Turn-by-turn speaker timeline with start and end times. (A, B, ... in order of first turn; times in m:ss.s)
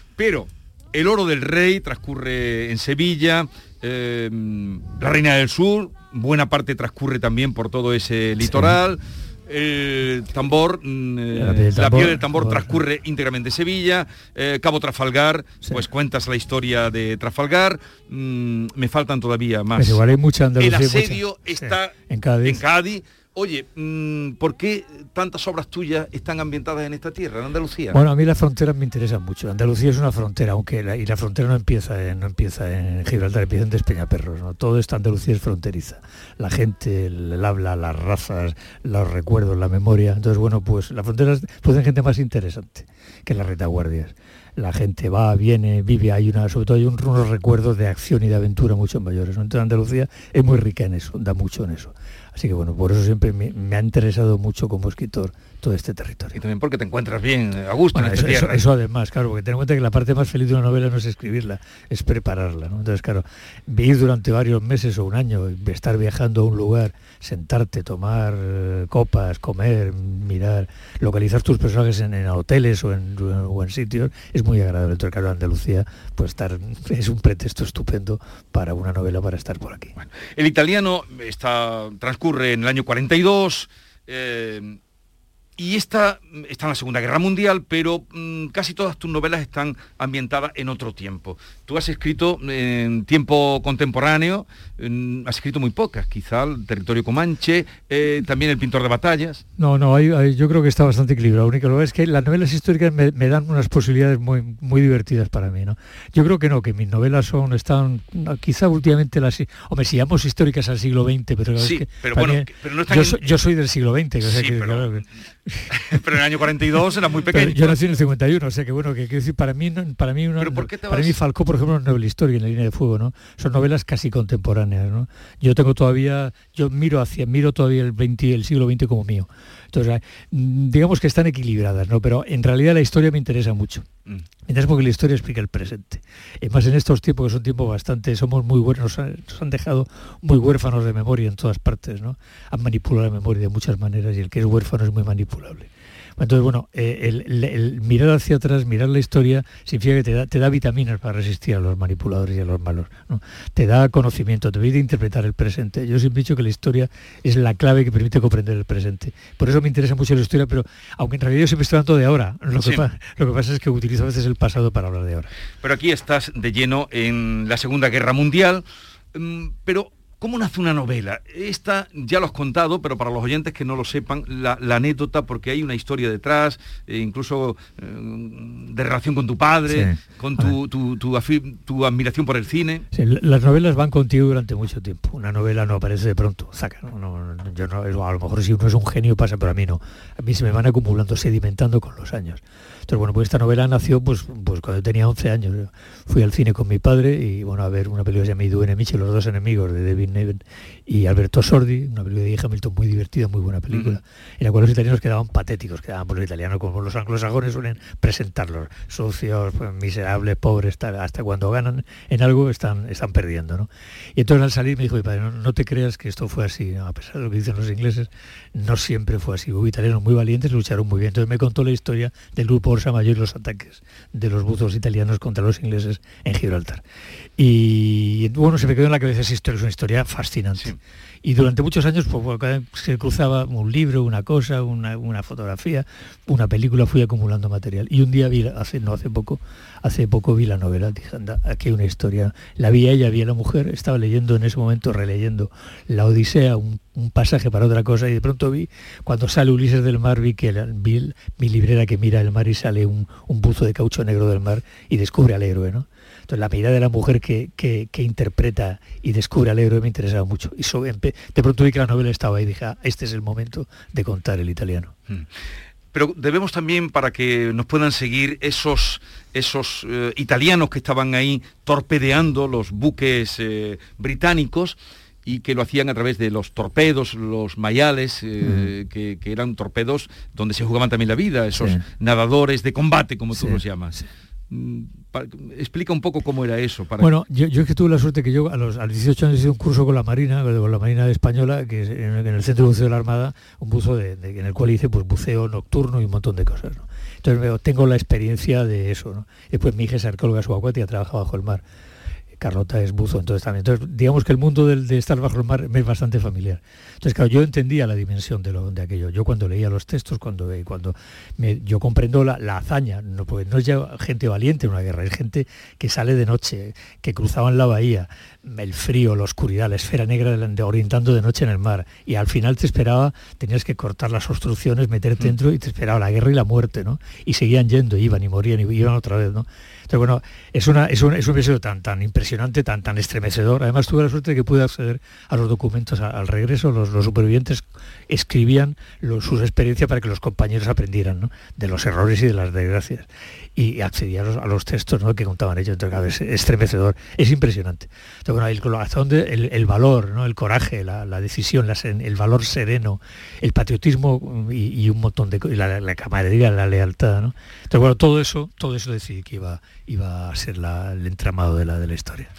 0:00.2-0:20.0 A
0:08.4-0:08.8 B
0:11.3-0:12.8 B
0:19.8-0:22.6 B
0:20.6-0:21.9 A
0:22.4-0:28.0 A
0:27.9-0:56.4 B
0:56.4-0:58.6 A
0:57.9-1:19.9 B
1:20.0-1:24.8 A
1:25.6-1:39.4 A
1:39.6-1:55.7 B
1:51.6-1:53.3 A
1:54.2-1:55.0 A
1:55.7-1:57.8 A
1:57.3-2:13.9 B
2:00.4-2:01.2 A
2:14.5-2:45.3 B
2:45.6-3:02.8 A
2:59.7-3:00.6 B
3:02.9-3:46.8 B
3:23.7-3:24.0 A
3:47.4-3:50.7 B
3:51.2-4:24.9 B
4:25.9-4:44.0 A
4:38.4-4:38.7 B
4:41.5-4:41.8 B
4:43.3-4:44.0 B
4:44.5-4:47.1 A
4:47.0-5:01.6 B
5:02.4-6:02.3 B